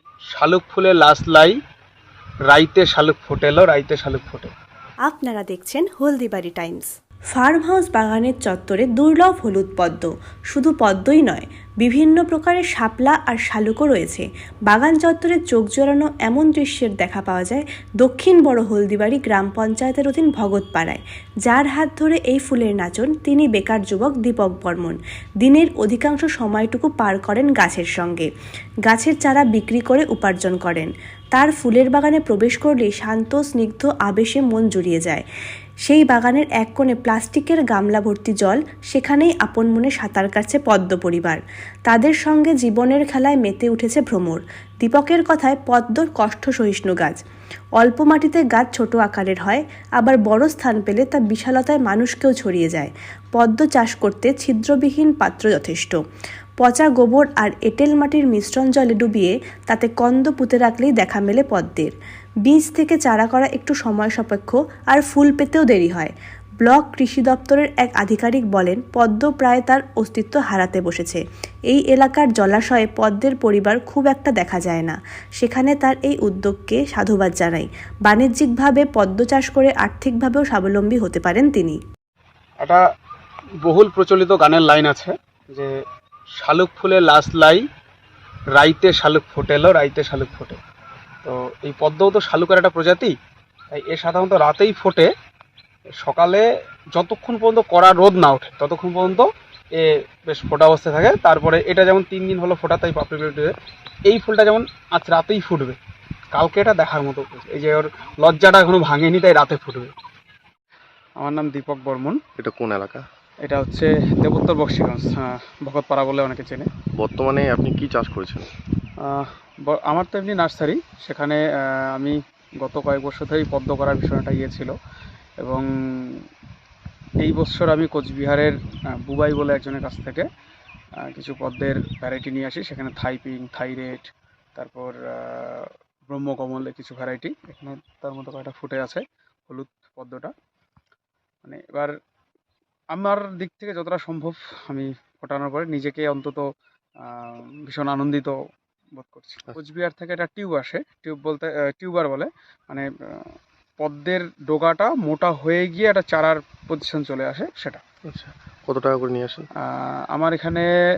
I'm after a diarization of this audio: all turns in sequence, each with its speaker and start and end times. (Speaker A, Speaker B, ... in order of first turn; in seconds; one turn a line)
Speaker A: 0.3-1.6
Speaker A: 2.5-4.5
Speaker B: 5.1-28.3
Speaker B: 28.9-35.2
Speaker B: 35.9-47.2
Speaker B: 47.8-56.0
Speaker B: 56.6-61.9
Speaker B: 62.5-81.8
Speaker A: 83.6-85.7
Speaker A: 86.4-87.6
Speaker A: 88.5-90.6
Speaker A: 91.2-93.2
Speaker A: 93.7-95.1
Speaker A: 96.0-103.5
Speaker A: 104.1-105.8
Speaker A: 106.3-109.9
Speaker A: 111.2-112.2
Speaker C: 112.4-113.0
Speaker A: 113.4-116.7
Speaker C: 117.0-118.5
Speaker A: 119.0-124.7
Speaker A: 125.4-126.2
Speaker A: 127.2-130.3
Speaker A: 131.1-140.3
Speaker A: 141.4-141.9
Speaker A: 142.9-146.5
Speaker A: 147.0-148.3
Speaker A: 148.9-157.8
Speaker C: 158.1-159.5
Speaker A: 159.6-160.7